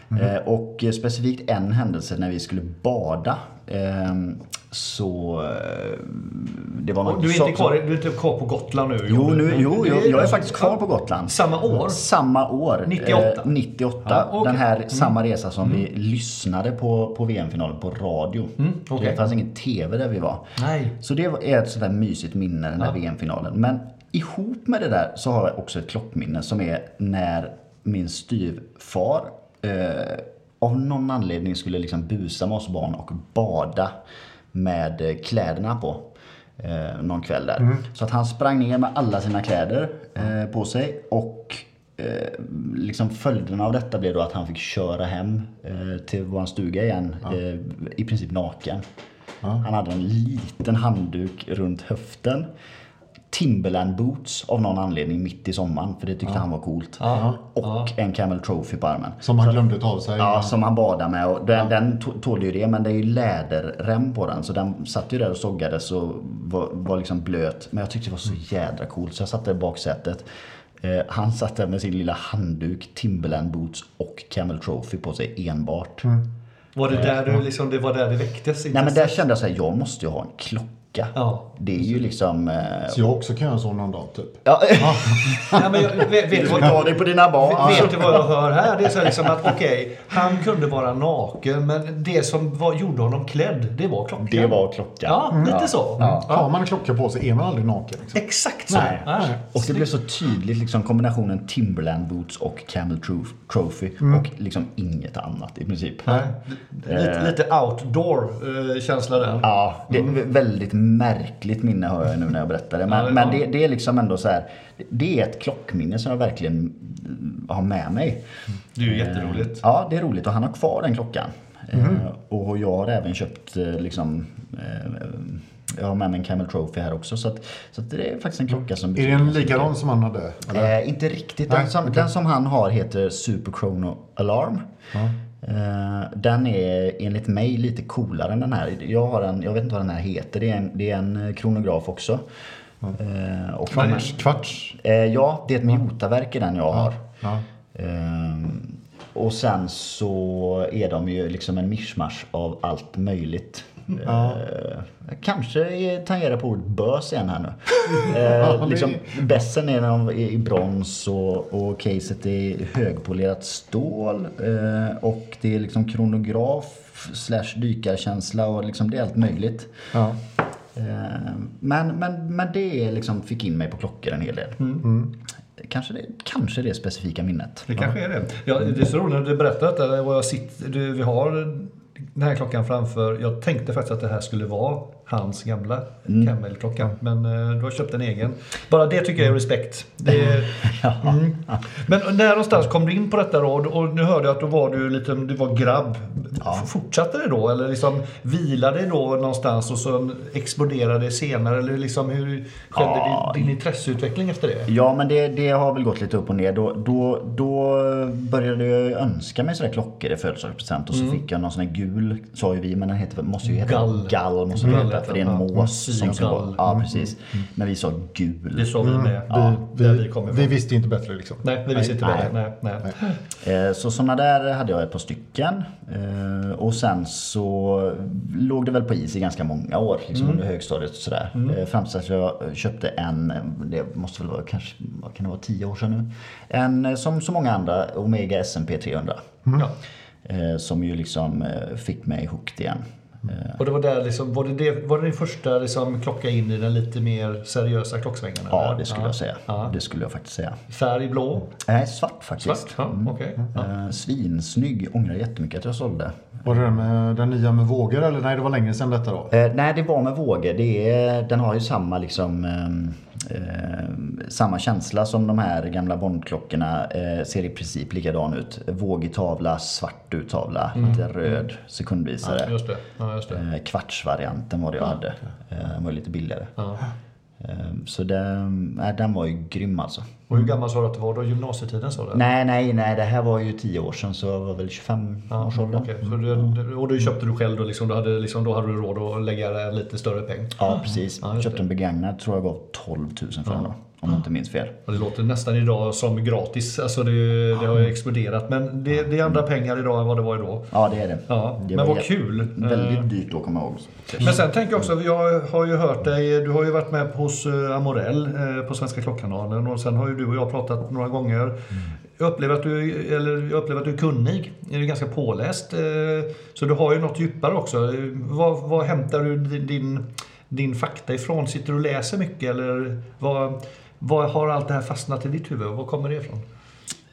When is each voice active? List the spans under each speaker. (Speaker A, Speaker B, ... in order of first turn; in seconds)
Speaker A: 0.1-7.8, 9.1-33.9, 34.5-48.8, 49.6-52.5, 53.3-59.6, 60.2-70.2, 70.8-76.1, 78.7-83.0, 84.4-89.3, 94.2-96.2, 98.7-106.2, 106.9-107.4, 109.4-118.2, 118.8-129.7, 130.5-134.7, 135.4-142.2, 142.9-147.0, 147.7-169.7, 170.7-174.6, 175.6-177.7, 186.1-186.3, 190.1-191.6, 196.4-196.7, 202.7-203.5, 204.7-219.6, 222.0-222.3, 223.4-239.2, 240.2-243.6, 248.5-250.6, 251.6-256.4, 259.3-272.5, 273.3-276.5, 277.4-280.2, 282.1-285.9, 290.6-294.8, 300.7-304.4
Speaker B: 7.0-12.0, 12.8-13.5, 14.0-15.1, 18.6-19.2, 20.6-20.9, 57.0-57.9, 76.8-79.2, 81.1-81.5, 85.5-96.5, 98.1-99.8, 106.0-109.5, 112.9-113.4, 118.7-119.6, 174.6-174.8, 177.7-204.7, 210.9-211.2, 213.5-216.6, 218.5-220.5, 221.4-223.2, 230.1-230.4, 231.3-231.6, 243.6-249.7, 250.7-251.5, 252.4-253.7, 270.8-271.0, 272.2-273.4, 276.6-276.8, 280.3-282.2, 285.3-291.6, 294.9-300.7, 301.3-303.1, 304.2-311.6, 312.2-326.4
Speaker C: 57.1-57.4, 59.2-60.5, 82.9-85.9, 87.6-88.0, 95.3-98.2, 98.7-99.4, 121.7-122.0, 128.9-130.7, 131.5-131.9, 143.7-144.7, 154.0-154.4, 158.1-159.1, 169.9-170.2, 174.8-175.1, 215.6-217.0, 218.8-222.3, 256.4-259.3